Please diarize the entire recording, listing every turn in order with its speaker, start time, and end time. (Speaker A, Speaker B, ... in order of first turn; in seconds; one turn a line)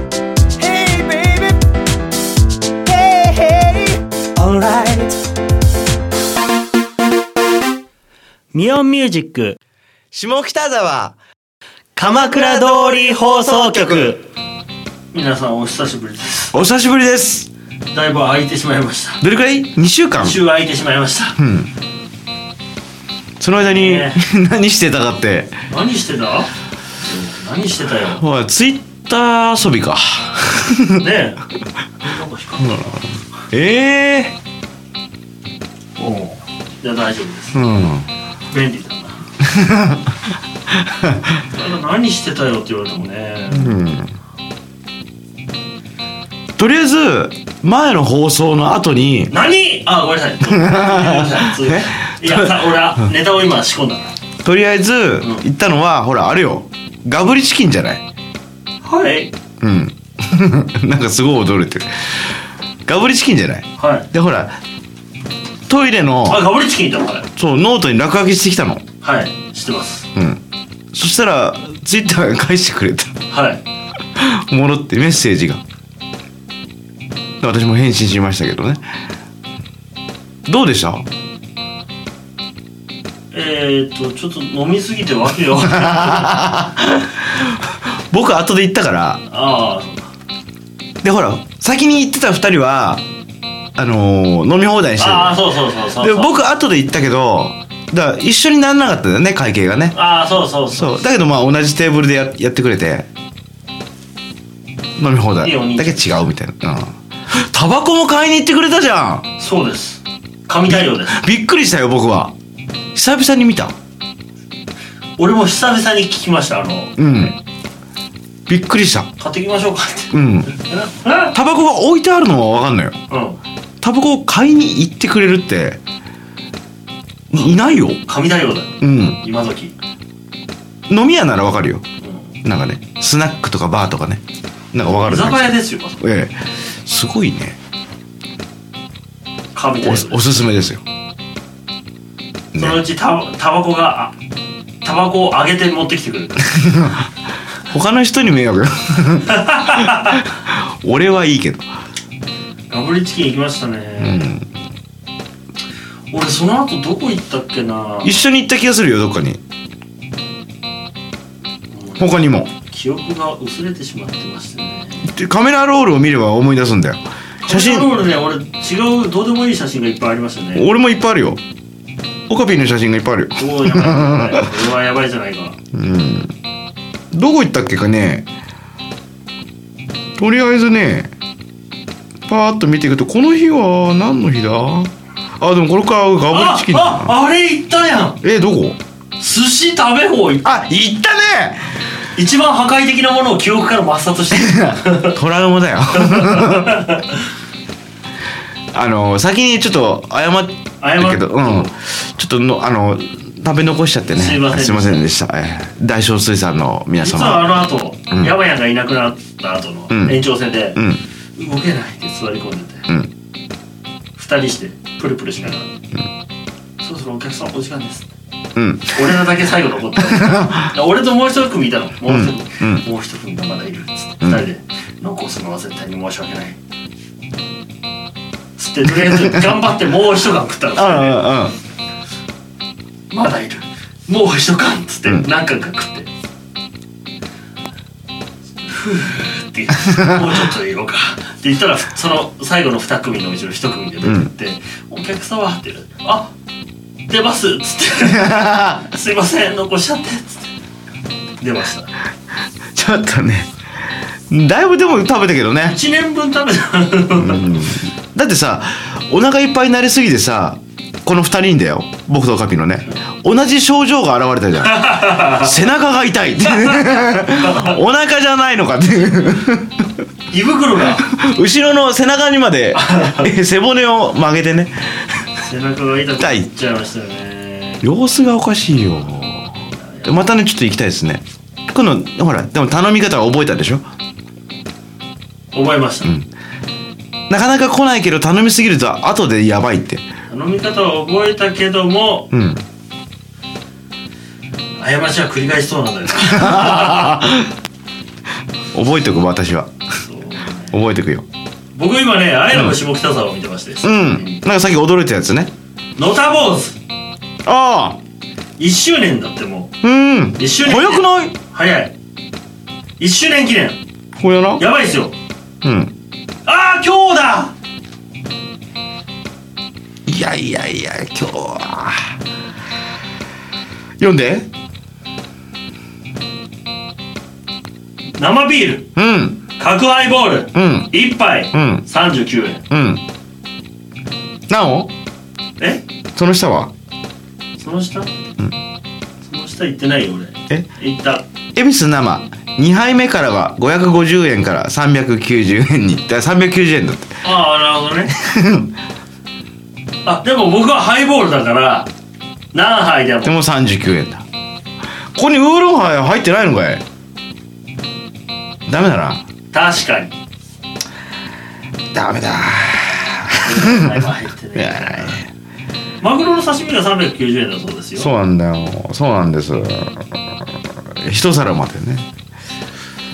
Speaker A: 0.6-1.4
Speaker A: 2.9-3.6
Speaker A: 4.3-5.1
Speaker A: 8.5-9.6
Speaker B: 10.1-11.2
Speaker A: 11.9-14.2
Speaker B: 12.1-14.2
Speaker A: 15.1-16.5
Speaker B: 16.5-17.5
Speaker A: 17.9-19.2
Speaker B: 19.2-20.4
Speaker A: 20.2-21.4
Speaker B: 21.4-21.7
Speaker B: 23.4-25.5
Speaker A: 23.6-24.2
Speaker A: 25.7-28.2
Speaker B: 28.1-31.0
Speaker A: 31.0-31.4
Speaker A: 32.0-33.0
Speaker B: 32.6-34.4
Speaker A: 36.0-37.6
Speaker B: 37.5-38.1
Speaker A: 38.5-39.2
Speaker B: 39.4-40.1
Speaker B: 41.0-41.2
Speaker A: 41.5-43.8
Speaker B: 43.5-44.1
Speaker B: 46.6-49.3
Speaker A: 49.3-54.1
Speaker B: 50.4-52.8
Speaker B: 54.4-58.0
Speaker A: 58.8-59.3
Speaker B: 59.6-62.2
Speaker B: 62.9-64.6
Speaker A: 63.8-64.1
Speaker B: 65.7-66.5
Speaker A: 66.3-67.3
Speaker B: 67.3-68.8
Speaker A: 69.0-70.1
Speaker B: 70.1-70.4
Speaker B: 70.9-73.1
Speaker A: 73.3-73.6
Speaker B: 74.2-75.6
Speaker B: 77.4-78.8
Speaker B: 80.5-81.1
Speaker A: 83.3-86.3
Speaker B: 85.7-89.2
Speaker A: 89.3-90.1
Speaker B: 91.0-93.0
Speaker B: 93.8-100.0
Speaker A: 95.0-96.4
Speaker A: 99.9-101.0
Speaker B: 100.7-103.1
Speaker B: 105.0-109.3
Speaker A: 105.4-106.2
Speaker A: 109.4-111.2
Speaker B: 110.7-112.3
Speaker B: 112.9-113.8
Speaker A: 115.2-117.3
Speaker B: 117.0-117.4
Speaker B: 118.5-119.1
Speaker A: 119.2-121.3
Speaker B: 120.1-120.5
Speaker B: 121.3-123.0
Speaker A: 123.1-123.4
Speaker B: 123.8-125.8
Speaker B: 127.3-128.0
Speaker A: 128.0-129.7
Speaker B: 128.8-129.2
Speaker B: 130.9-131.8
Speaker B: 132.4-134.2
Speaker B: 134.7-137.6
Speaker A: 134.9-136.0
Speaker A: 139.5-140.3
Speaker B: 139.8-140.8
Speaker B: 142.5-142.8
Speaker A: 142.5-144.1
Speaker A: 144.8-146.5
Speaker B: 146.5-147.0
Speaker B: 147.7-151.7
Speaker A: 149.4-150.2
Speaker A: 152.7-154.3
Speaker B: 154.0-154.5
Speaker A: 156.1-158.2
Speaker B: 158.0-159.4
Speaker A: 161.7-165.1
Speaker B: 162.0-162.5
Speaker B: 165.0-168.0
Speaker A: 167.4-170.7
Speaker B: 170.5-171.4
Speaker B: 172.3-174.5
Speaker A: 173.4-175.6
Speaker B: 175.7-176.3
Speaker B: 177.1-178.3
Speaker B: 180.2-181.1
Speaker B: 182.3-187.1
Speaker A: 186.3-188.2
Speaker B: 188.2-188.8
Speaker A: 189.2-190.6
Speaker B: 190.4-191.7
Speaker A: 192.2-195.2
Speaker B: 194.3-196.8
Speaker A: 196.0-197.2
Speaker B: 198.7-207.6
Speaker A: 200.8-201.7
Speaker A: 204.1-205.0
Speaker A: 207.0-210.8
Speaker B: 209.9-210.2
Speaker B: 210.7-211.0
Speaker A: 211.4-212.9
Speaker A: 214.2-215.7
Speaker A: 216.8-218.1
Speaker B: 218.6-219.1
Speaker A: 218.9-226.6
Speaker B: 220.1-220.7
Speaker B: 222.1-222.8
Speaker A: 228.6-231.3
Speaker B: 230.7-231.6
Speaker A: 233.1-236.1
Speaker A: 238.6-246.3
Speaker B: 239.9-240.2
Speaker B: 244.0-244.3
Speaker A: 247.1-250.5
Speaker B: 248.0-248.8
Speaker A: 251.4-251.9
Speaker B: 252.7-253.5
Speaker B: 254.3-255.8
Speaker A: 255.6-257.8
Speaker B: 257.2-269.9
Speaker A: 264.6-265.6
Speaker A: 266.5-267.8
Speaker A: 270.3-271.1
Speaker B: 270.9-274.7
Speaker A: 272.7-273.3
Speaker A: 275.4-277.9
Speaker B: 276.2-276.5
Speaker B: 277.8-283.8
Speaker A: 279.6-280.2
Speaker A: 285.5-286.1
Speaker B: 286.0-286.3
Speaker B: 287.3-290.0
Speaker A: 290.3-292.3
Speaker B: 292.3-292.6
Speaker A: 294.8-297.2
Speaker B: 296.2-297.5
Speaker B: 298.7-299.7
Speaker A: 300.0-300.8
Speaker B: 300.7-301.2
Speaker A: 301.7-304.4
Speaker B: 303.8-305.5
Speaker A: 306.0-306.8
Speaker B: 307.4-308.0
Speaker A: 308.6-309.7
Speaker B: 309.8-311.4
Speaker A: 310.4-311.9
Speaker A: 313.0-313.8
Speaker B: 314.2-314.6
Speaker A: 314.6-315.1
Speaker B: 315.6-315.9
Speaker A: 316.4-317.5
Speaker B: 320.1-322.1
Speaker B: 324.0-324.5
Speaker A: 328.2-328.9
Speaker B: 328.9-329.4
Speaker A: 329.6-332.6
Speaker B: 330.5-330.9
Speaker B: 331.5-331.8
Speaker B: 332.7-333.0
Speaker B: 334.5-334.9
Speaker B: 336.1-336.7
Speaker A: 337.6-338.1
Speaker A: 339.2-341.2
Speaker B: 341.5-347.2
Speaker A: 347.2-348.1
Speaker B: 348.2-348.7
Speaker A: 350.0-351.9
Speaker A: 352.5-353.4
Speaker B: 353.2-354.2
Speaker B: 355.1-356.8
Speaker B: 358.7-359.2
Speaker A: 359.5-360.1
Speaker B: 361.9-364.0
Speaker A: 363.4-365.2
Speaker B: 364.6-365.3
Speaker A: 366.0-368.1
Speaker B: 368.0-370.1
Speaker B: 370.9-372.1